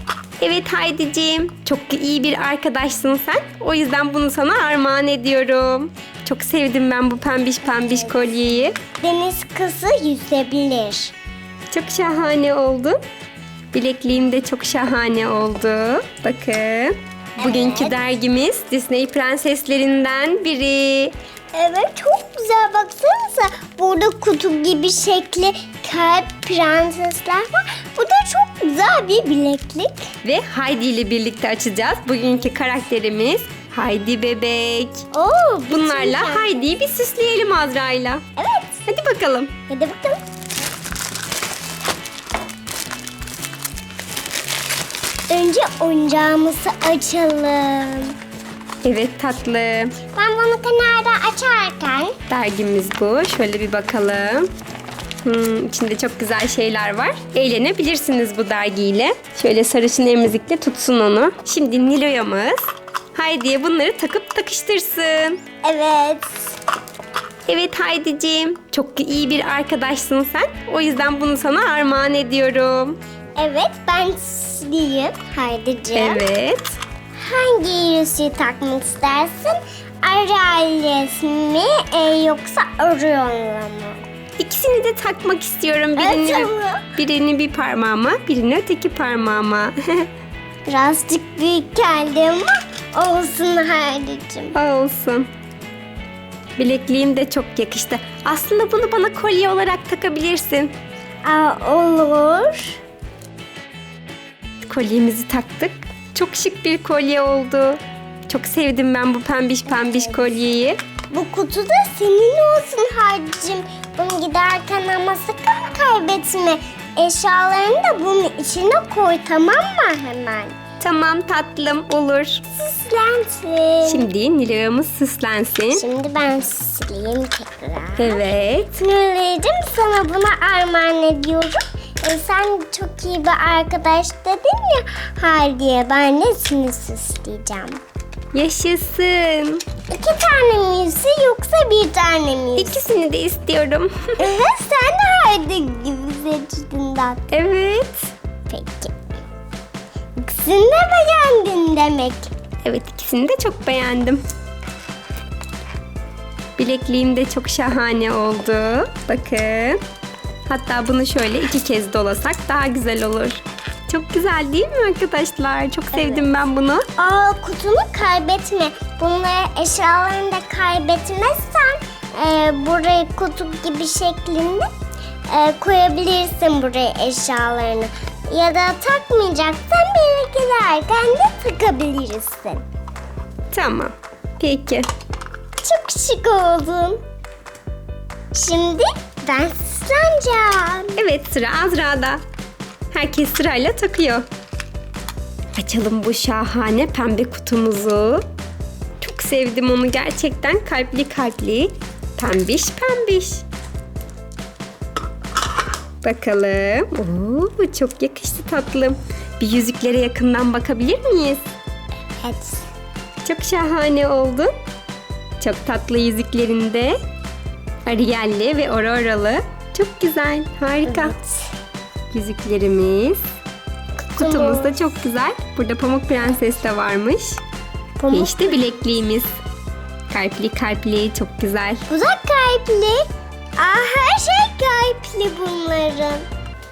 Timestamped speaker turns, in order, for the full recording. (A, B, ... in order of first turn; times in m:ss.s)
0:00.4-0:08.8 A
0:09.0-0:11.1 B
0:11.7-0:13.0 A
0:13.7-0:21.1 A
0:17.4-0:17.9 B
0:21.5-0:30.1 B
0:30.2-0:35.1 A
0:35.1-0:36.7 B
0:35.7-0:38.2 A
0:38.4-0:38.8 B
0:38.9-0:39.5 A
0:39.7-0:40.2 B
0:45.3-0:48.2 B
0:48.8-0:50.0 A
0:50.1-0:52.2 B
0:52.3-0:54.5 A
0:55.2-1:05.4 A
1:05.6-1:06.5 B
1:07.5-1:13.0 A
1:13.4-1:16.2 B
1:15.9-1:16.8 A
1:17.2-1:24.0 B
1:24.4-1:30.1 A
1:26.0-1:26.9 B
1:30.7-1:34.6 B
1:34.5-1:35.3 A
1:36.6-1:40.7 A
1:41.2-1:42.8 B
1:44.6-1:50.8 A
1:51.1-2:00.6 B
2:00.8-2:02.4 A
2:02.5-2:04.1 B
2:03.8-2:05.8 A
2:05.7-2:17.8 B
2:08.0-2:08.8 A
2:18.3-2:19.6 A
2:19.9-2:22.8 B
2:22.6-2:24.2 A
2:24.2-2:27.2 B
2:27.3-2:28.1 A
2:28.5-2:28.9 B
2:30.2-2:32.3 B
2:32.6-2:34.2 A
2:36.6-2:39.8 A
2:40.5-2:46.8 A
2:45.9-2:46.2 B
2:47.0-2:54.7 B
2:55.3-3:02.6 B
3:03.5-3:04.9 A
3:05.6-3:07.0 B
3:08.3-3:11.0 B
3:11.0-3:12.2 A
3:12.9-3:14.3 A
3:15.6-3:18.2 A
3:19.0-3:23.4 A
3:26.0-3:31.4 A
3:32.2-3:32.7 B
3:33.2-3:34.5 A
3:35.4-3:37.0 A
3:37.9-3:41.1 A
3:40.9-3:41.5 B
3:42.1-3:43.2 A
3:44.1-3:44.8 B
3:44.2-3:47.4 A
3:48.0-3:48.3 B
3:48.1-3:49.4 A
3:50.1-3:51.8 A
3:51.9-3:53.0 B
3:53.6-3:56.2 B